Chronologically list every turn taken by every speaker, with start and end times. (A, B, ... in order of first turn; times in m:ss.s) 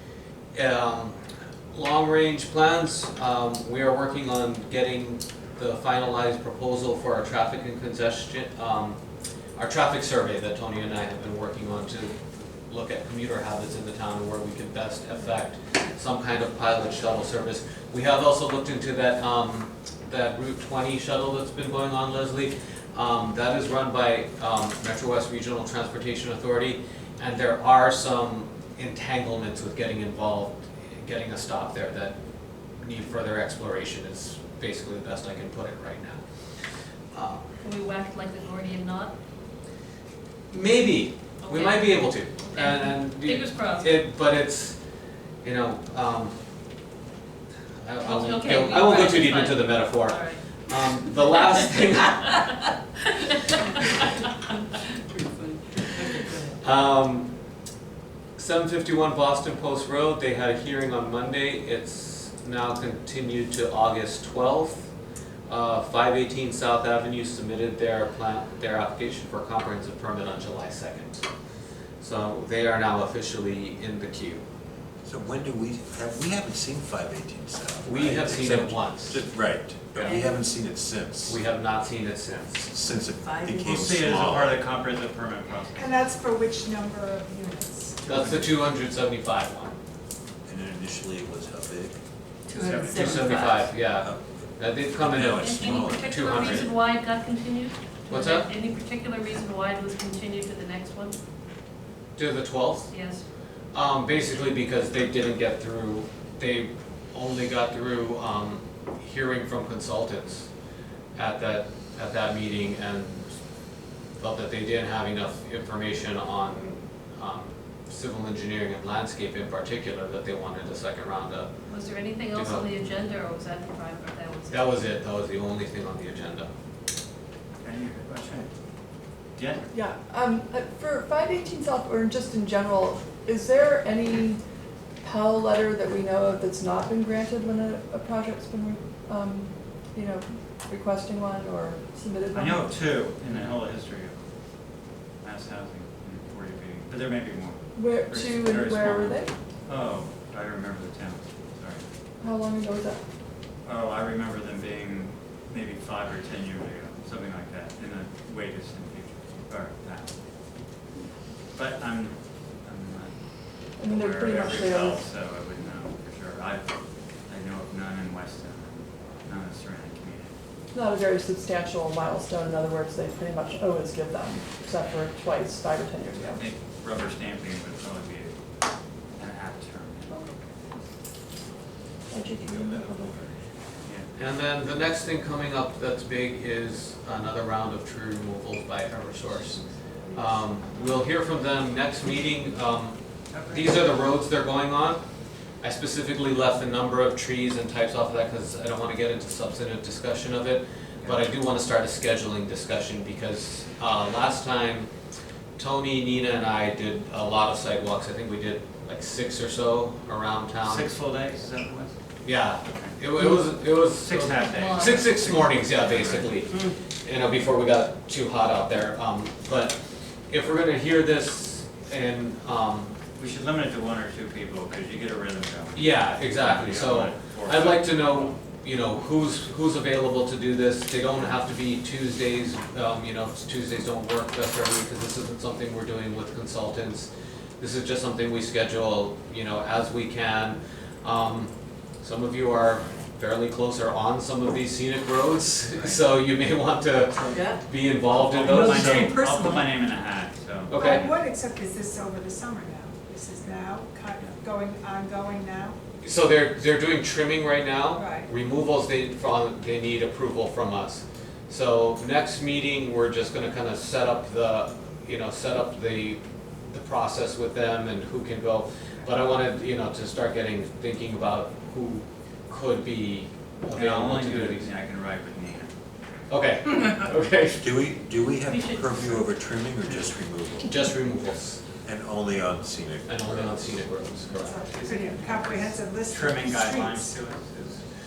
0:00.5-0:01.2 A
0:01.7-0:09.0 A
0:09.6-0:32.1 A
0:32.8-0:36.2 A
0:37.1-0:37.4 A
0:37.6-0:39.1 B
0:40.5-0:44.8 A
0:41.4-0:44.0 B
0:45.4-0:46.3 A
0:47.8-0:52.5 A
0:48.0-0:50.4 B
0:51.2-0:51.6 B
0:53.3-0:53.5 B
0:55.1-0:56.6 C
0:56.6-0:57.3 A
0:58.4-1:04.9 A
1:05.5-1:11.2 A
1:12.0-1:14.4 A
1:15.0-1:21.4 D
1:17.8-1:19.2 A
1:21.3-1:22.7 A
1:22.7-1:24.6 D
1:23.3-1:23.6 C
1:23.6-1:26.0 E
1:25.8-1:28.4 F
1:28.0-1:29.7 A
1:30.4-1:32.0 D
1:32.5-1:33.7 C
1:32.6-1:33.4 E
1:32.9-1:33.6 G
1:33.0-1:36.7 A
1:34.9-1:36.4 D
1:35.3-1:41.2 B
1:36.4-1:36.7 E
1:38.1-1:38.5 A
1:42.2-1:42.9 A
1:42.9-1:43.2 B
1:43.7-1:50.5 A
1:51.2-1:53.3 A
1:54.2-2:01.5 A
2:01.7-2:04.8 B
2:02.3-2:02.7 A
2:04.5-2:06.5 A
2:07.5-2:08.5 E
2:09.4-2:09.6 E
2:09.7-2:14.4 G
2:15.0-2:22.7 G
2:22.3-2:24.2 E
2:25.2-2:31.8 E
2:27.8-2:29.3 G
2:32.2-2:33.0 G
2:33.6-2:40.1 E
2:41.5-2:43.2 E
2:43.8-2:45.0 G
2:43.8-2:50.4 E
2:50.7-2:56.4 G
2:56.3-2:58.4 E
2:59.2-3:00.2 E
3:00.1-3:00.4 G
3:02.1-3:03.2 G
3:02.4-3:03.3 D
3:03.8-3:04.1 E
3:04.1-3:09.6 A
3:10.1-3:13.0 A
3:13.3-3:13.8 E
3:13.5-3:15.0 A
3:15.6-3:24.9 A
3:21.0-3:21.2 E
3:25.6-3:30.9 A
3:30.6-3:32.0 E
3:32.2-3:39.8 A
3:32.7-3:33.0 E
3:33.9-3:36.4 E
3:40.3-3:42.9 A
3:43.2-3:48.3 E
3:45.7-4:09.1 A
4:05.8-4:06.0 E
4:08.2-4:11.2 E
4:08.5-4:09.8 C
4:10.7-4:11.0 A
4:10.7-4:15.8 F
4:16.0-4:34.7 A
4:18.0-4:18.3 F
4:33.7-4:35.7 E
4:36.3-4:37.7 A
4:37.6-4:40.7 D
4:38.4-4:39.3 B
4:40.6-4:41.6 A
4:41.8-4:43.6 D
4:43.0-4:44.7 A
4:44.4-4:47.1 F
4:44.7-4:47.8 E